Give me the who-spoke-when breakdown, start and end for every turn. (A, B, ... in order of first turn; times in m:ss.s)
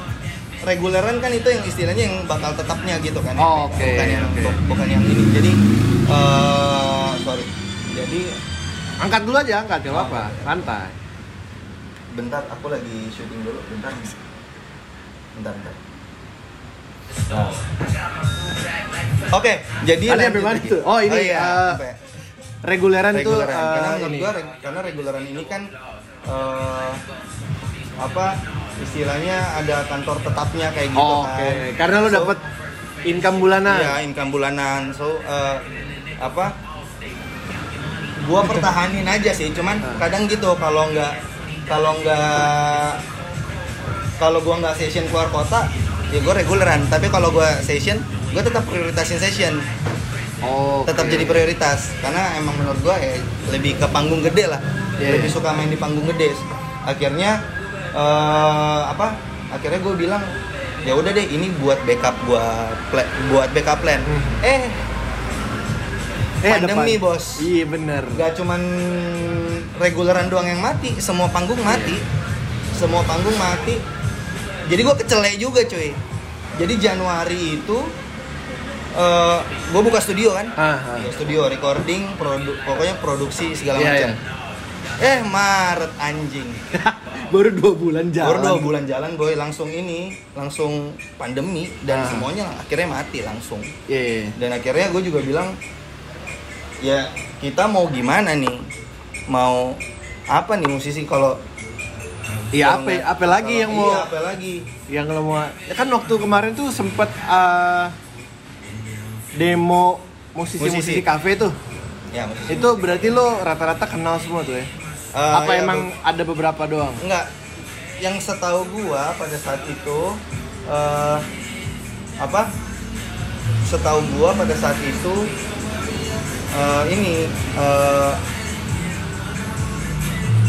0:00.6-0:08.3 A
0:03.4-0:04.6 B
0:09.0-0:11.0 B
0:09.9-0:10.7 A
0:12.1-0:14.2 A
0:15.3-0:15.8 A
0:17.3-0:17.6 A
0:19.3-0:22.0 A
0:20.1-0:21.8 B
0:22.6-0:24.3 B
0:23.1-0:25.7 A
0:26.3-0:27.0 A
0:28.0-0:32.4 A
0:31.0-0:32.4 B
0:33.1-0:34.0 B
0:33.6-0:35.6 A
0:36.2-0:36.6 A
0:38.2-0:41.2 A
0:41.7-0:43.0 A
0:44.2-0:49.7 A
0:50.4-0:51.5 B
0:50.9-0:57.4 A
0:55.0-0:55.4 B
0:57.9-1:00.3 A
1:00.8-1:04.8 A
1:04.1-1:04.4 B
1:06.4-1:08.2 B
1:06.5-1:07.4 A
1:08.1-1:12.0 A
1:11.6-1:12.0 B
1:12.8-1:13.8 A
1:14.7-1:16.0 A
1:16.6-1:17.9 A
1:18.9-1:24.2 A
1:20.6-1:21.1 B
1:23.8-1:24.2 B
1:25.0-1:26.6 A
1:26.7-1:28.7 B
1:28.2-1:33.7 A
1:31.9-1:32.3 B
1:33.9-1:34.4 B
1:34.4-1:35.6 A
1:36.8-1:38.7 A
1:39.3-1:41.4 A
1:42.5-1:44.1 B
1:42.6-1:44.7 A
1:44.9-1:48.0 B
1:49.4-1:51.6 B
1:50.6-1:51.0 A
1:52.1-1:53.2 A
1:52.5-1:54.7 B
1:55.1-1:55.9 A
1:55.3-1:57.0 B
1:57.0-1:57.3 A
1:58.0-2:01.2 A
2:02.2-2:02.5 A
2:03.6-2:05.3 A
2:06.5-2:08.2 A